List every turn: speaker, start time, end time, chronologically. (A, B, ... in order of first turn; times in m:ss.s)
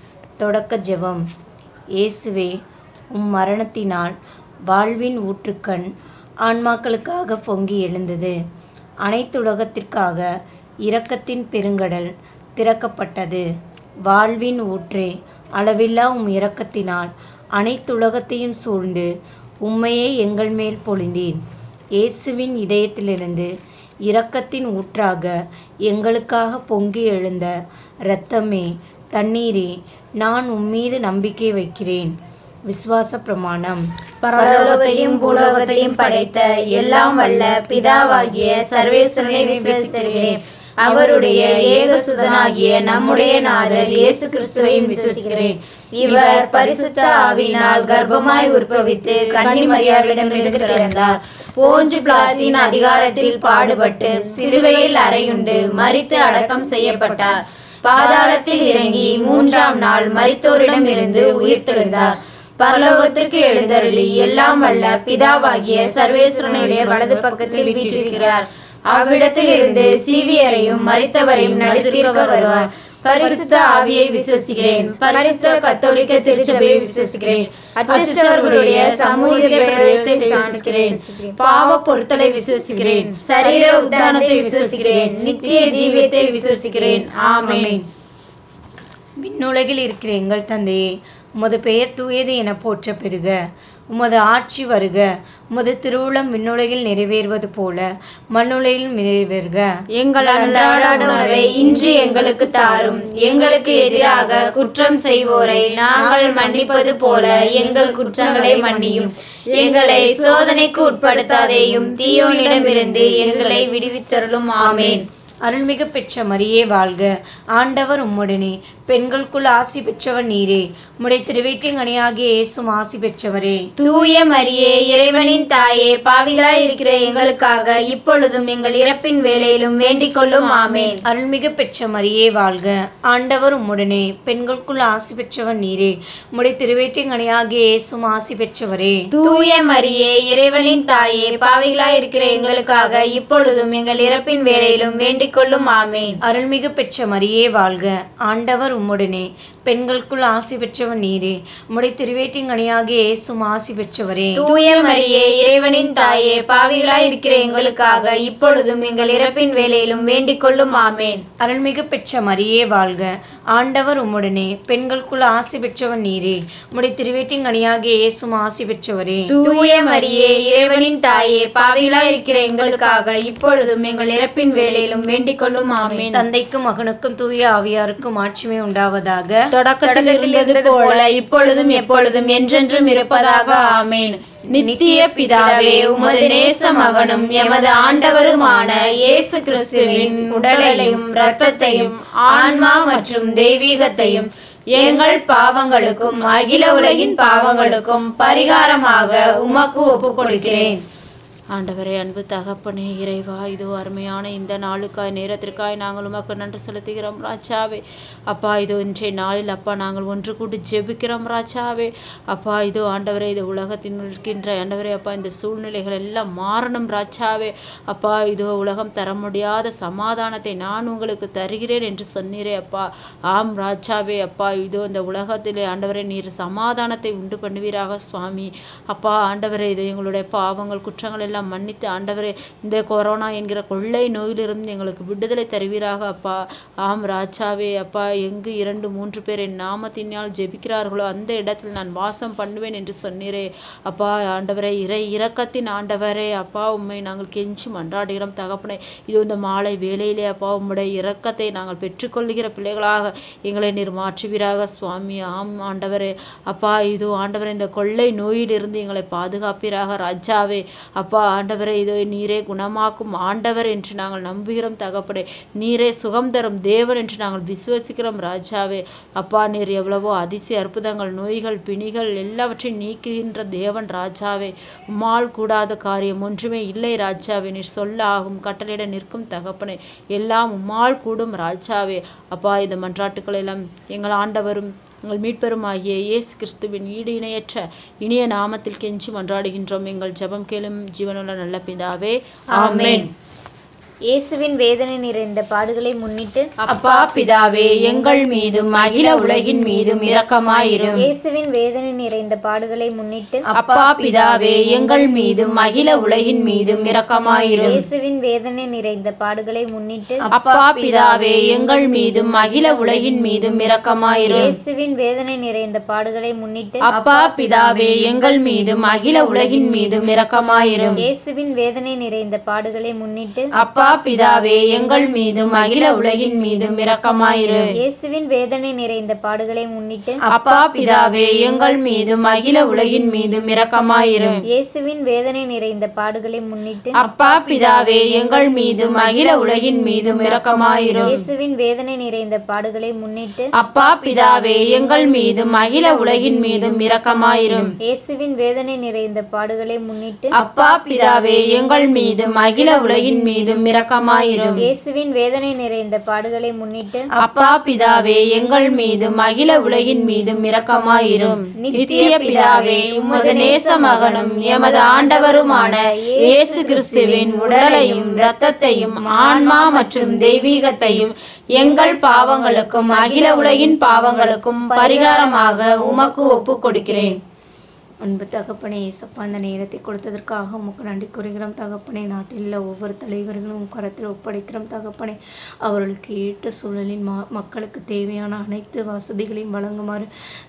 0:00.4-0:01.2 A
0:02.0-0:02.6 A
0:03.1-0:04.2 A
0:04.7-0:05.9 A
0:06.4-0:08.4 A
0:09.0-0:10.3 A
0:10.9-0:13.5 A
0:14.1-0:19.1 A
0:19.6-0:21.4 A
0:22.0-0:23.5 A
0:24.1-0:25.4 A
0:25.9-0:27.6 A
0:28.1-0:32.1 A
0:32.7-0:33.8 A
0:34.2-0:40.4 B
0:34.4-0:51.1 C
0:39.2-0:40.4 A
0:40.9-0:42.5 A
0:41.0-0:43.6 B
0:43.4-0:44.1 A
0:44.3-0:45.2 B
0:45.0-0:45.5 D
0:46.0-0:47.9 A
0:47.3-0:57.3 B
0:51.9-0:57.3 C
0:54.0-0:55.2 A
0:57.9-1:02.1 B
0:58.0-0:59.3 C
0:58.0-0:59.2 A
1:00.0-1:02.1 C
1:02.6-1:27.8 B
1:03.2-1:08.4 C
1:06.4-1:08.2 A
1:09.0-1:12.6 C
1:13.1-1:13.4 C
1:14.6-1:17.4 C
1:15.6-1:16.2 D
1:16.8-1:17.1 D
1:17.9-1:20.8 A
1:17.9-1:21.4 D
1:18.0-1:20.5 C
1:22.6-1:23.1 A
1:23.6-1:24.9 A
1:23.9-1:27.1 D
1:26.2-1:26.7 C
1:27.4-1:27.8 A
1:29.2-1:30.9 A
1:31.4-1:33.4 A
1:33.9-1:39.7 A
1:40.0-1:46.0 B
1:40.8-1:55.0 C
1:40.9-1:41.2 A
1:40.9-1:43.1 D
1:46.0-1:49.1 A
1:48.1-1:52.7 B
1:51.6-1:53.7 A
1:54.6-2:03.6 A
2:03.8-2:11.0 C
2:10.4-2:10.9 B
2:11.0-2:19.0 A
2:19.2-2:26.2 C
2:22.4-2:22.9 B
2:26.3-2:34.5 A
2:34.4-2:41.2 C
2:41.4-2:49.3 A
2:49.3-2:50.5 B
2:49.5-2:49.8 D
2:49.5-2:56.0 C
2:51.8-2:53.0 B
2:55.1-2:56.2 B
2:56.1-2:59.4 A
2:59.5-3:14.2 B
2:59.8-3:01.9 C
3:02.5-3:04.1 C
3:04.6-3:06.0 A
3:05.4-3:09.3 C
3:07.1-3:07.8 A
3:09.8-3:11.0 A
3:11.0-3:14.3 C
3:14.8-3:20.7 B
3:14.8-3:20.8 C
3:20.3-3:20.8 A
3:21.5-4:53.1 B
4:52.6-4:53.1 A
4:54.1-4:56.5 D
4:56.6-5:01.0 B
4:59.0-5:00.0 A
5:01.0-5:03.4 D
5:03.5-5:05.9 A
5:03.6-5:07.8 B
5:07.6-5:10.2 D
5:10.3-5:12.0 A
5:10.3-5:14.6 B
5:14.3-5:16.9 D
5:16.9-5:21.0 B
5:17.0-5:17.3 A
5:21.0-5:23.5 D
5:23.6-5:27.7 B
5:27.8-5:30.2 D
5:30.3-5:31.4 A
5:30.3-5:34.4 B
5:34.5-5:37.0 D
5:37.0-5:41.1 B
5:41.0-5:43.5 D
5:43.6-5:47.7 B
5:47.8-5:50.4 D
5:50.4-5:54.6 B
5:50.4-5:51.5 A
5:52.6-5:53.2 A
5:54.6-5:57.1 D
5:57.2-5:57.5 A
5:57.2-6:17.2 B
6:01.6-6:06.3 D
6:01.8-6:04.2 A
6:06.5-6:08.2 A
6:09.0-6:09.9 A
6:12.2-6:13.0 D
6:13.8-6:17.1 D
6:18.0-6:30.1 A